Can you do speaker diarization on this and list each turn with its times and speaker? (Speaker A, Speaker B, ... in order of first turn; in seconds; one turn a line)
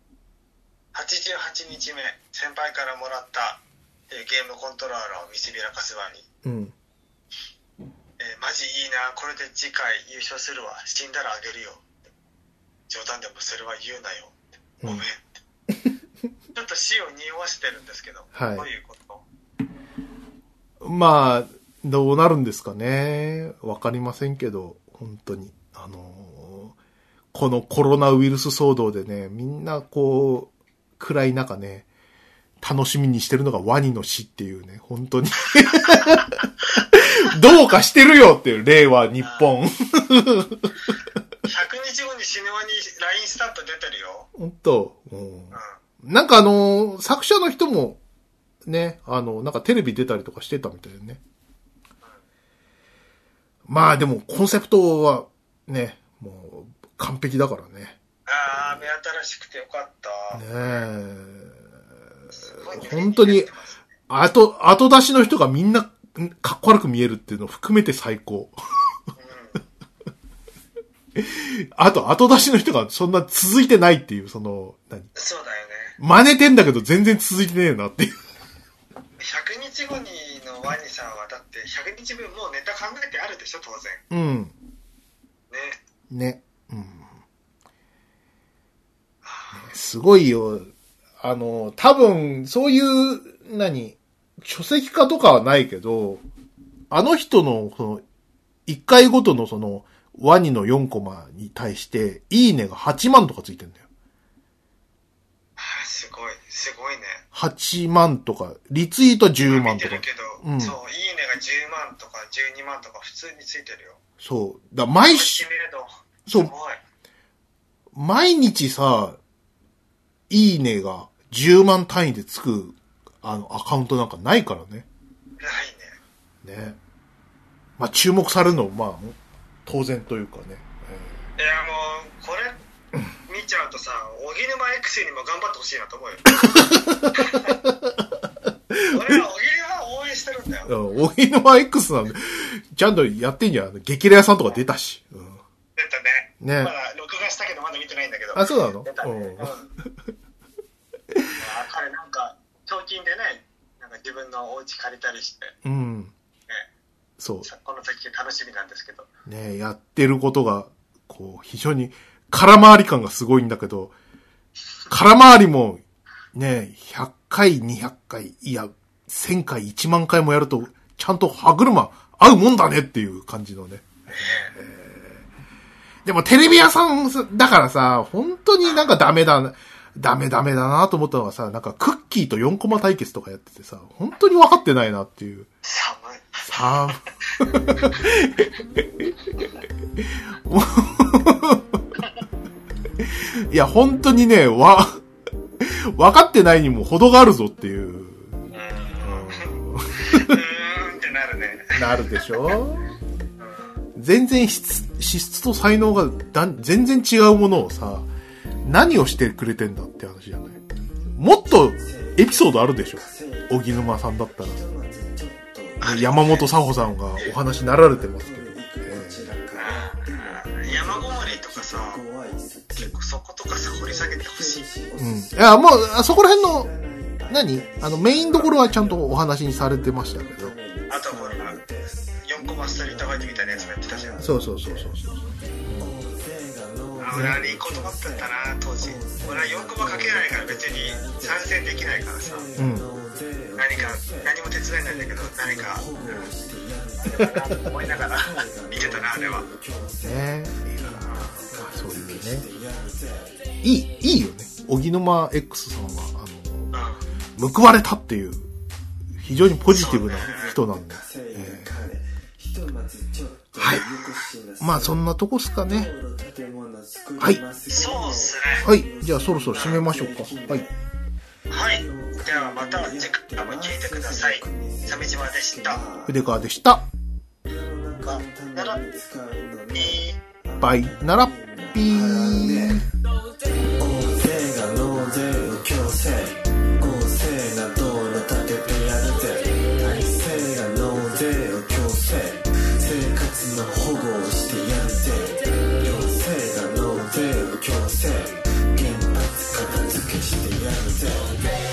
Speaker A: 0.9-6.2
Speaker B: 6.4-6.7
Speaker A: 8.2-11.9
Speaker A: 12.9-15.4
Speaker A: 16.5-19.2
Speaker B: 18.3-18.7
Speaker B: 20.8-26.7
Speaker B: 27.3-31.9
Speaker B: 32.6-40.7
Speaker A: 35.9-36.1
Speaker A: 39.2-39.5
Speaker A: 41.4-44.3
Speaker B: 44.4-48.0
Speaker B: 48.6-51.2
Speaker B: 53.7-58.0
Speaker A: 58.3-60.8
Speaker B: 58.5-58.9
Speaker B: 60.3-61.6
Speaker A: 62.3-63.8
Speaker B: 62.4-63.5
Speaker B: 64.1-68.5
Speaker A: 69.1-69.6
Speaker B: 71.2-75.1
Speaker A: 75.1-76.0
Speaker B: 76.0-78.2
Speaker A: 79.2-84.0
Speaker B: 84.1-84.5
Speaker A: 85.5-85.8
Speaker B: 86.1-87.1
Speaker A: 89.2-89.7
Speaker B: 89.5-96.2
Speaker B: 96.9-98.0
Speaker B: 98.7-103.8
Speaker A: 105.6-107.2
Speaker B: 107.3-110.8
Speaker A: 109.5-114.0
Speaker B: 114.2-115.4
Speaker A: 115.1-116.8
Speaker B: 117.9-119.2
Speaker B: 120.3-124.8
Speaker A: 125.4-126.0
Speaker B: 126.4-126.8
Speaker B: 127.8-131.2
Speaker A: 131.4-132.6
Speaker A: 133.2-137.6
Speaker B: 136.3-139.2
Speaker A: 138.9-140.7
Speaker B: 140.7-145.4
Speaker A: 145.8-149.7
Speaker B: 146.4-146.7
Speaker B: 148.3-149.5
Speaker A: 151.4-155.5
Speaker B: 155.6-156.1
Speaker B: 157.2-157.5
Speaker A: 157.4-159.1
Speaker B: 159.2-163.9
Speaker B: 164.9-175.2
Speaker A: 174.1-174.5
Speaker B: 176.0-185.5
Speaker A: 178.6-178.9
Speaker A: 185.6-187.9
Speaker B: 186.4-191.8
Speaker B: 193.0-195.0
Speaker B: 195.6-198.3
Speaker A: 198.5-202.6
Speaker B: 199.0-200.4
Speaker B: 201.7-202.9
Speaker A: 203.4-203.7
Speaker B: 203.9-208.1
Speaker B: 208.6-210.6
Speaker B: 211.1-214.6
Speaker C: 211.5-213.8
Speaker C: 214.3-223.0
Speaker A: 215.8-216.5
Speaker B: 215.8-219.3
Speaker A: 219.5-222.0
Speaker A: 222.8-224.7
Speaker C: 223.6-234.9
Speaker B: 225.0-226.7
Speaker B: 227.3-230.5
Speaker A: 230.9-231.6
Speaker A: 232.2-234.2
Speaker B: 234.2-235.9
Speaker C: 235.8-253.4
Speaker A: 237.0-242.5
Speaker B: 237.1-237.5
Speaker B: 242.6-242.9
Speaker A: 243.6-245.8
Speaker A: 247.0-249.4
Speaker B: 250.0-252.5
Speaker A: 251.0-251.3
Speaker B: 253.6-256.7
Speaker A: 256.7-257.0
Speaker B: 257.4-258.5
Speaker B: 259.2-261.7
Speaker C: 259.6-265.0
Speaker A: 259.7-260.5
Speaker B: 263.6-263.9
Speaker B: 264.6-265.9
Speaker C: 265.6-270.8
Speaker A: 267.7-268.6
Speaker B: 268.6-270.7
Speaker A: 269.5-269.8
Speaker A: 271.5-275.8
Speaker C: 271.7-276.3
Speaker B: 276.1-276.9
Speaker C: 277.4-282.9
Speaker A: 278.0-278.8
Speaker A: 279.7-280.2
Speaker B: 280.6-282.8
Speaker C: 283.8-301.4